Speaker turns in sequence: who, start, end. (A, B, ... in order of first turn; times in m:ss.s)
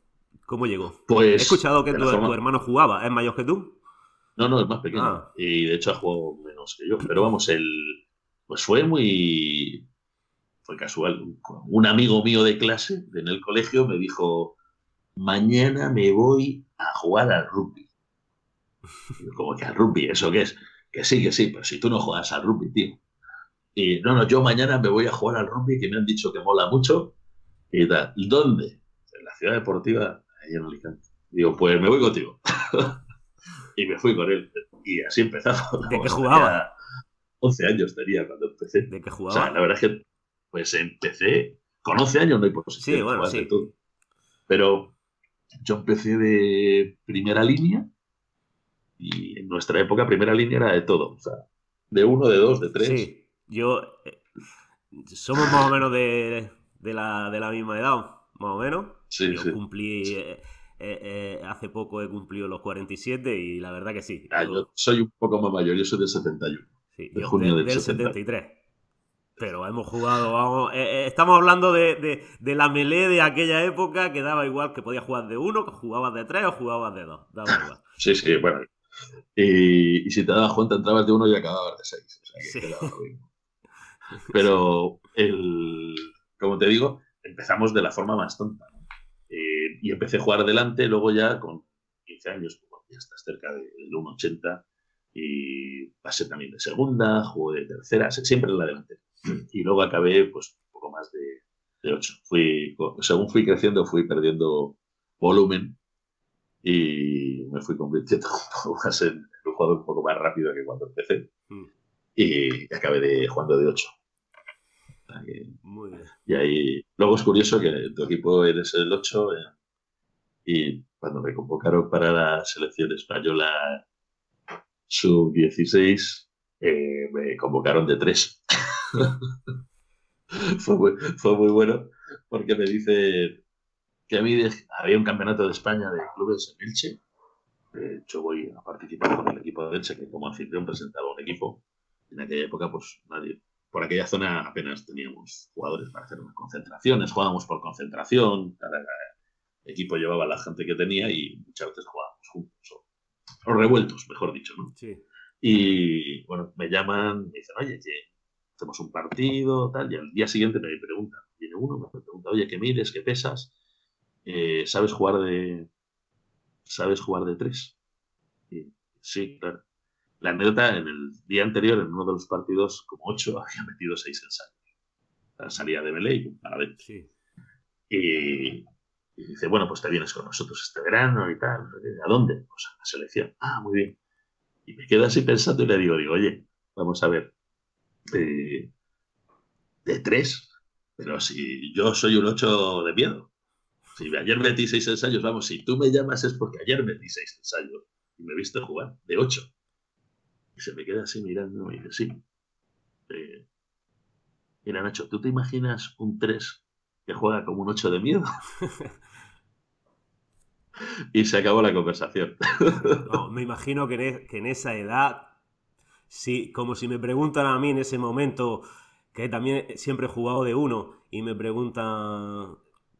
0:00.4-0:03.8 A
0:01.1-0:02.4 B
0:04.4-0:09.8 B
0:04.9-0:05.3 A
0:10.6-0:14.5 B
0:15.2-0:17.9 B
0:19.2-0:23.0 B
0:23.8-0:27.1 B
0:27.7-0:33.0 B
0:33.8-0:36.7 B
0:35.8-0:36.6 A
0:37.4-0:43.7 B
0:38.9-0:39.6 A
0:42.8-0:43.6 A
0:44.5-0:44.9 B
0:45.6-0:47.9 B
0:49.0-0:53.1 B
0:52.8-0:54.2 A
0:54.9-1:04.7 A
0:59.1-0:59.6 B
1:04.3-1:08.2 B
1:06.9-1:08.6 A
1:09.4-1:17.8 A
1:17.5-1:18.7 B
1:19.4-1:23.3 B
1:22.4-1:22.9 A
1:24.2-1:24.6 A
1:24.3-1:34.6 B
1:35.1-1:45.8 B
1:46.6-1:51.3 B
1:52.2-1:53.9 B
1:55.1-1:55.6 B
1:55.6-1:56.1 A
1:56.2-1:59.5 B
2:00.4-2:03.8 B
2:04.9-2:09.2 B
2:10.3-2:13.4 B
2:14.1-2:17.0 B
2:17.7-2:21.6 B
2:22.1-2:28.9 B
2:29.6-2:32.8 B
2:33.4-2:34.7 B
2:34.7-2:35.0 A
2:35.4-2:38.1 B
2:38.6-2:43.5 B
2:44.2-2:45.7 B
2:46.7-2:47.7 B
2:48.5-2:49.6 B
2:50.2-2:54.5 B
2:55.4-2:56.8 B
2:56.8-2:57.1 A
2:57.9-2:58.6 B
2:59.2-3:04.0 B
3:04.7-3:07.3 B
3:08.1-3:08.7 B
3:09.8-3:13.3 B
3:13.9-3:19.5 B
3:20.6-3:22.2 B
3:23.1-3:23.4 B
3:24.6-3:28.2 B
3:28.6-3:28.9 A
3:31.1-3:33.1 B
3:33.0-3:35.3 A
3:36.1-3:42.6 A